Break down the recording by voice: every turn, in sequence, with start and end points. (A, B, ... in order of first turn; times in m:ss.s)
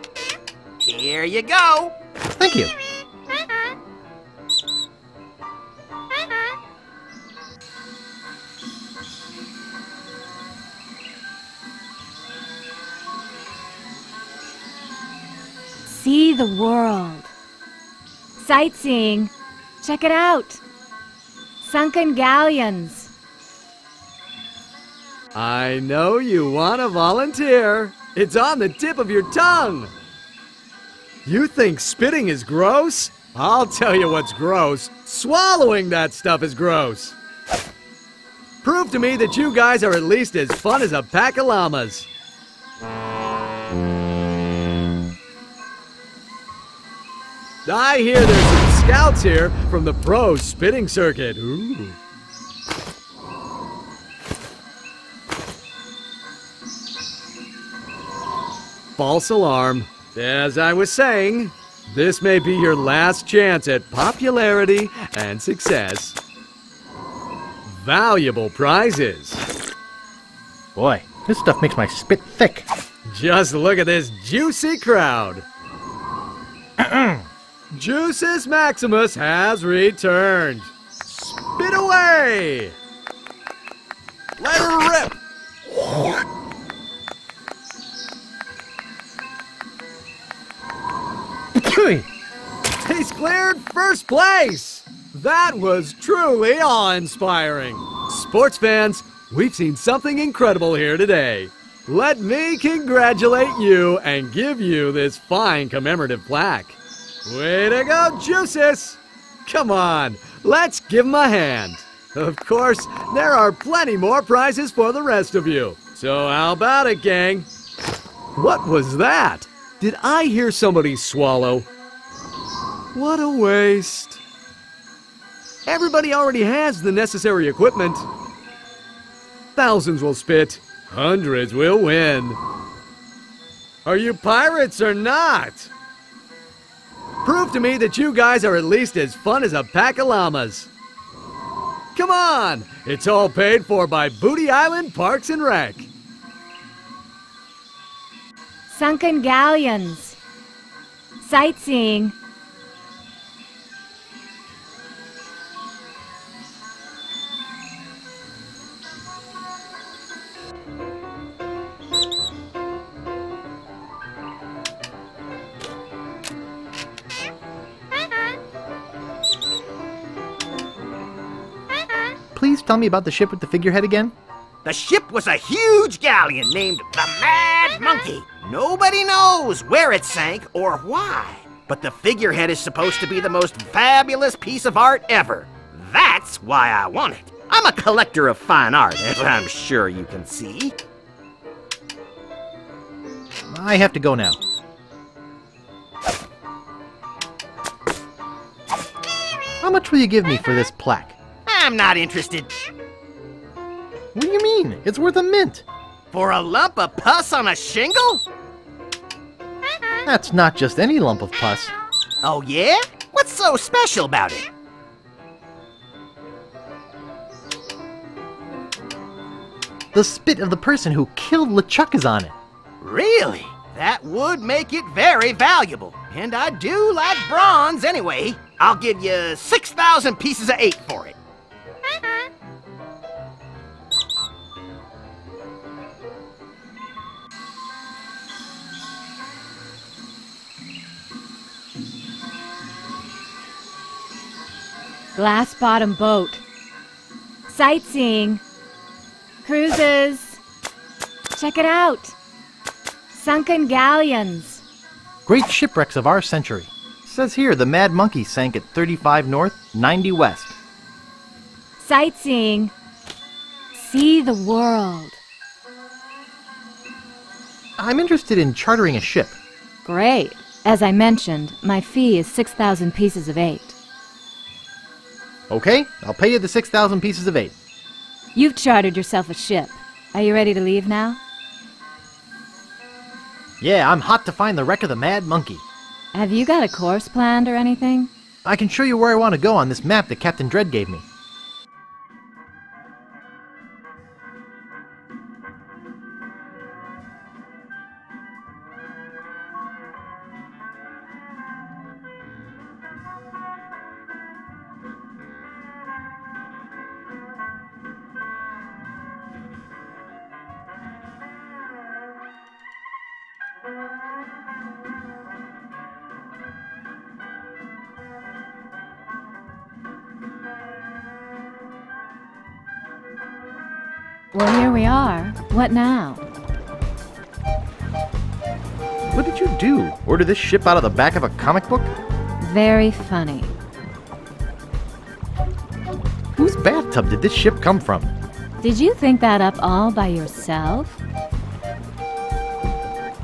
0:00.8-0:01.9 A
0:02.4-0:02.7 B
0:15.8-0:17.3 C
0:18.4-0:20.6 C
0:21.6-0:23.1 C
0:25.4-0:29.9 D
0:31.3-0:37.2 D
0:38.6-0:42.1 D
0:47.7-0:52.0 D
0:59.0-1:06.2 D
1:07.7-1:09.4 D
1:10.8-1:12.7 B
1:13.1-1:15.4 D
1:16.8-1:17.2 B
1:17.7-1:22.7 D
1:24.4-1:25.2 D
1:31.6-1:32.0 B
1:32.8-1:57.5 D
1:58.4-2:01.7 D
2:03.0-2:04.2 D
2:05.7-2:08.1 D
2:09.6-2:12.4 D
2:13.9-2:15.7 D
2:17.2-2:20.7 D
2:22.0-2:25.9 D
2:28.7-2:30.2 C
2:31.2-2:32.2 C
2:52.3-2:54.1 B
2:54.6-3:10.8 A
3:13.5-3:14.4 B
3:19.6-3:21.2 B
3:21.5-3:22.5 A
3:24.1-3:25.6 B
3:26.1-3:28.2 A
3:30.0-3:31.7 B
3:32.2-3:34.5 A
3:39.9-3:42.4 B
3:42.8-3:51.2 A
4:05.2-4:06.4 C
4:07.5-4:08.4 C
4:09.4-4:10.4 C
4:11.3-4:12.2 C
4:13.1-4:14.6 C
4:15.3-4:20.6 B
4:21.8-4:22.7 C
4:23.7-4:25.2 C
4:27.8-4:29.4 B
4:29.8-4:33.8 C
4:35.5-4:37.6 B
4:38.3-4:41.2 C
4:43.6-4:45.6 B
4:46.1-4:48.1 C
4:48.4-4:51.0 B
5:24.3-5:26.2 C
5:29.1-5:31.9 B
5:32.4-5:33.5 C
5:36.4-5:38.1 B
5:38.6-5:41.0 C